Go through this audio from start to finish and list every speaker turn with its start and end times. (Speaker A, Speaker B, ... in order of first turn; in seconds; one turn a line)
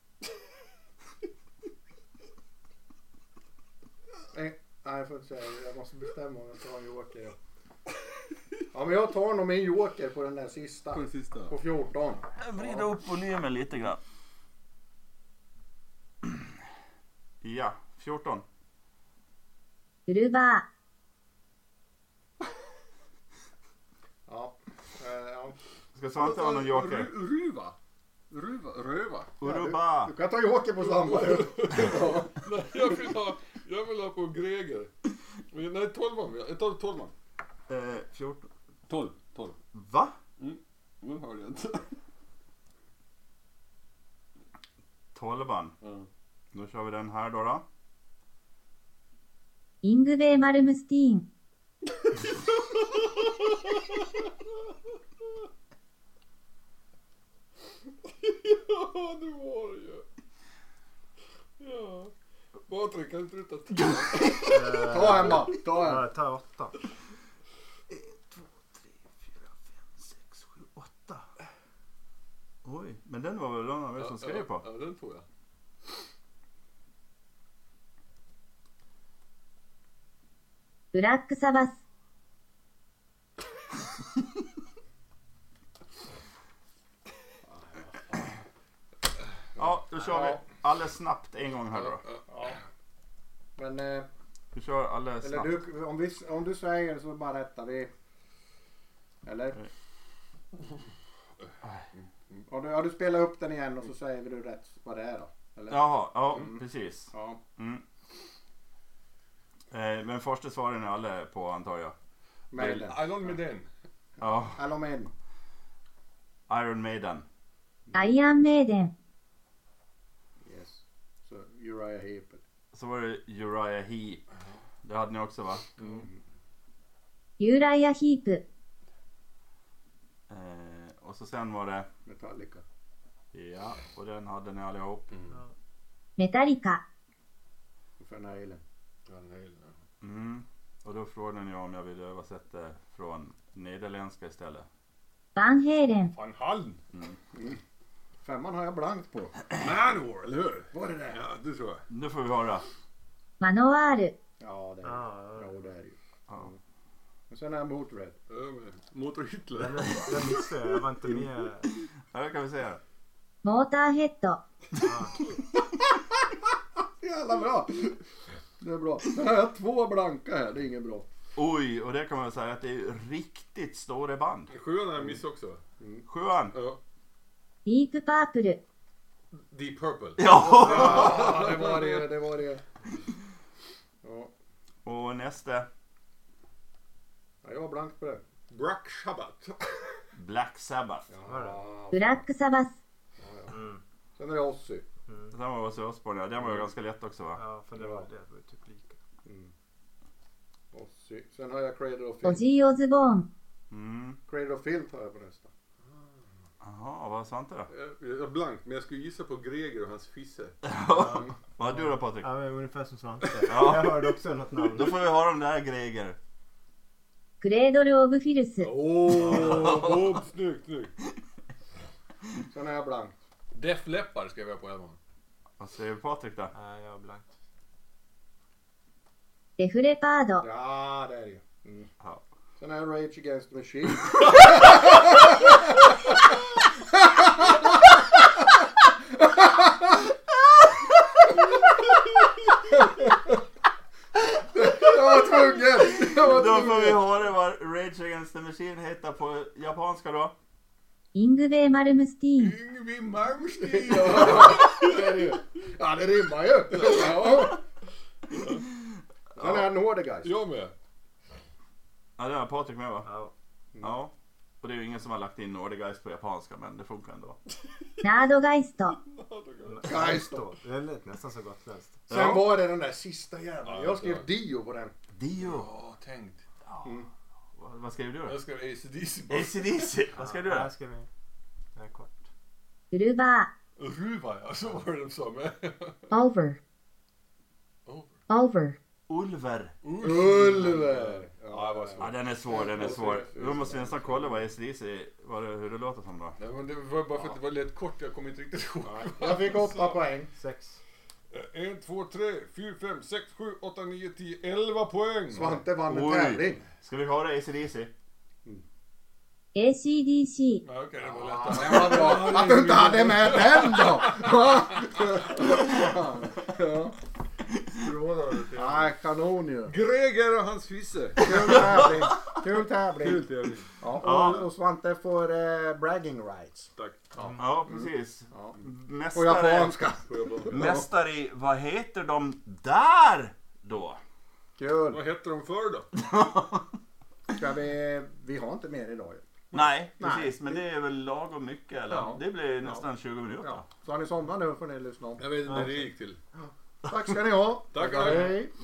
Speaker A: 4.3-7.3
Speaker A: 8.7-12.2
Speaker B: 10.9-11.5
Speaker C: 12.3-14.0
Speaker C: 17.4-18.4
Speaker D: 20.1-20.6
Speaker A: 24.3-25.6
Speaker C: 25.9-27.1
Speaker B: 26.2-27.8
Speaker B: 28.3-29.3
Speaker C: 29.4-30.1
Speaker A: 29.4-32.4
Speaker B: 30.8-34.9
Speaker B: 35.5-37.1
Speaker C: 37.7-38.5
Speaker B: 38.9-39.5
Speaker C: 39.7-40.1
Speaker B: 40.4-41.9
Speaker C: 45.1-45.7
Speaker B: 45.8-46.1
Speaker C: 46.5-47.6
Speaker D: 49.8-51.2
Speaker B: 52.7-54.2
Speaker B: 58.0-60.0
Speaker B: 61.6-62.1
Speaker B: 62.7-65.2
Speaker C: 64.0-65.2
Speaker E: 64.4-66.8
Speaker A: 64.7-66.1
Speaker C: 67.9-71.3
Speaker C: 72.6-74.6
Speaker B: 74.0-75.2
Speaker D: 80.9-81.7
Speaker A: 87.5-88.3
Speaker C: 89.6-92.0
Speaker A: 90.0-90.4
Speaker A: 92.3-92.6
Speaker A: 93.6-94.1
Speaker C: 94.5-95.6
Speaker A: 95.2-97.9
Speaker A: 99.2-99.7
Speaker A: 102.5-107.4
Speaker C: 105.7-107.8
Speaker C: 109.7-111.9
Speaker A: 112.5-113.3
Speaker C: 112.5-112.9
Speaker B: 112.7-113.7
Speaker C: 114.2-114.7
Speaker A: 114.5-115.1
Speaker C: 116.5-117.2
Speaker A: 117.9-118.2
Speaker D: 117.9-118.9
Speaker A: 120.4-122.4
Speaker C: 122.7-124.2
Speaker C: 124.8-125.6
Speaker A: 125.8-126.2
Speaker D: 127.4-128.4
Speaker C: 130.3-131.9
Speaker A: 132.1-132.6
Speaker C: 133.3-135.1
Speaker B: 135.1-135.4
Speaker D: 136.2-136.8
Speaker A: 138.0-138.6
Speaker B: 139.1-139.7
Speaker C: 140.0-144.7
Speaker D: 145.3-146.1
Speaker B: 146.1-146.8
Speaker C: 146.9-147.2
Speaker A: 147.3-147.6
Speaker A: 148.2-149.3
Speaker B: 149.5-151.8
Speaker A: 150.7-151.2
Speaker C: 151.9-152.6
Speaker D: 153.4-154.1
Speaker A: 154.4-156.6
Speaker E: 154.8-155.6
Speaker A: 157.3-158.2
Speaker B: 158.3-160.1
Speaker E: 159.6-161.7
Speaker C: 162.1-162.8
Speaker D: 163.4-164.4
Speaker E: 164.8-165.2
Speaker A: 167.0-168.0
Speaker A: 168.6-171.1
Speaker C: 171.3-174.5
Speaker B: 174.5-175.6
Speaker A: 175.8-176.0
Speaker C: 176.1-176.6
Speaker B: 176.5-176.8
Speaker D: 177.7-178.6
Speaker B: 179.3-182.1
Speaker C: 180.2-181.2
Speaker A: 180.4-182.6
Speaker A: 184.0-184.3
Speaker C: 184.8-185.7
Speaker A: 187.4-188.2
Speaker B: 188.5-190.0
Speaker C: 190.1-191.1
Speaker A: 191.1-192.3
Speaker E: 191.2-191.6
Speaker D: 191.9-192.7
Speaker A: 193.2-193.6
Speaker E: 193.5-193.8
Speaker A: 194.2-194.8
Speaker E: 195.1-195.3
Speaker C: 195.3-197.4
Speaker E: 197.3-199.0
Speaker A: 197.8-198.1
Speaker A: 199.2-199.5
Speaker A: 200.7-202.5
Speaker D: 202.2-203.2
Speaker C: 203.7-204.2
Speaker A: 204.3-205.5
Speaker C: 206.6-207.7
Speaker B: 207.7-210.5
Speaker C: 210.6-212.3
Speaker E: 210.9-215.0
Speaker C: 213.4-214.1
Speaker C: 214.7-216.2
Speaker D: 217.4-218.7
Speaker B: 218.6-220.9
Speaker C: 219.1-220.2
Speaker A: 222.5-223.1
Speaker B: 223.5-225.0
Speaker C: 225.6-226.5
Speaker E: 226.5-227.3
Speaker D: 229.6-230.4
Speaker A: 230.4-231.9
Speaker A: 232.6-236.1
Speaker A: 239.4-239.7
Speaker A: 242.8-243.2
Speaker A: 244.1-247.0
Speaker C: 246.1-250.3
Speaker D: 251.1-252.6
Speaker B: 252.4-255.4
Speaker A: 253.6-257.6
Speaker B: 256.8-257.5
Speaker B: 258.3-258.6
Speaker A: 259.4-260.3
Speaker B: 259.4-259.7
Speaker B: 260.2-260.7
Speaker C: 262.2-263.1
Speaker E: 263.0-263.3
Speaker C: 263.8-267.4
Speaker B: 267.6-268.0
Speaker D: 268.0-269.0
Speaker B: 268.9-270.1
Speaker E: 269.7-272.0
Speaker A: 269.8-270.4
Speaker C: 272.1-272.6
Speaker A: 272.1-274.9
Speaker B: 273.6-274.2
Speaker C: 275.1-275.7
Speaker B: 275.4-276.4
Speaker C: 276.6-277.0
Speaker C: 277.6-278.4
Speaker B: 278.2-280.0
Speaker C: 279.3-280.7
Speaker E: 280.1-281.1
Speaker E: 281.8-282.2
Speaker D: 282.9-283.5
Speaker B: 283.8-286.1
Speaker D: 286.1-286.6
Speaker B: 287.9-288.1
Speaker D: 288.3-288.8
Speaker C: 289.1-289.7
Speaker B: 289.8-294.4
Speaker A: 290.0-293.3
Speaker C: 292.0-296.4
Speaker B: 296.4-300.0
Speaker A: 298.8-300.3
Speaker E: 300.3-300.8
Speaker B: 301.3-305.6
Speaker A: 305.3-306.6
Speaker C: 305.8-307.9
Speaker D: 309.5-310.6
Speaker B: 310.6-314.4
Speaker A: 311.0-316.9
Speaker B: 317.7-318.9
Speaker A: 318.5-319.7
Speaker B: 319.7-321.6
Speaker A: 321.2-323.3
Speaker C: 321.3-322.3
Speaker B: 323.0-323.7
Speaker A: 323.8-328.5
Speaker C: 323.9-324.5
Speaker B: 326.8-327.1
Speaker C: 327.4-329.9
Speaker A: 329.1-330.9
Speaker B: 330.1-330.6
Speaker C: 330.5-334.0
Speaker A: 334.6-335.0
Speaker B: 334.9-335.9
Speaker C: 335.9-336.7
Speaker A: 337.3-339.2
Speaker C: 339.5-343.6
Speaker A: 340.0-340.6
Speaker A: 341.9-342.8
Speaker A: 343.4-345.8
Speaker B: 345.2-346.2
Speaker E: 345.4-345.9
Speaker A: 346.4-348.5
Speaker B: 347.7-348.5
Speaker C: 348.1-348.3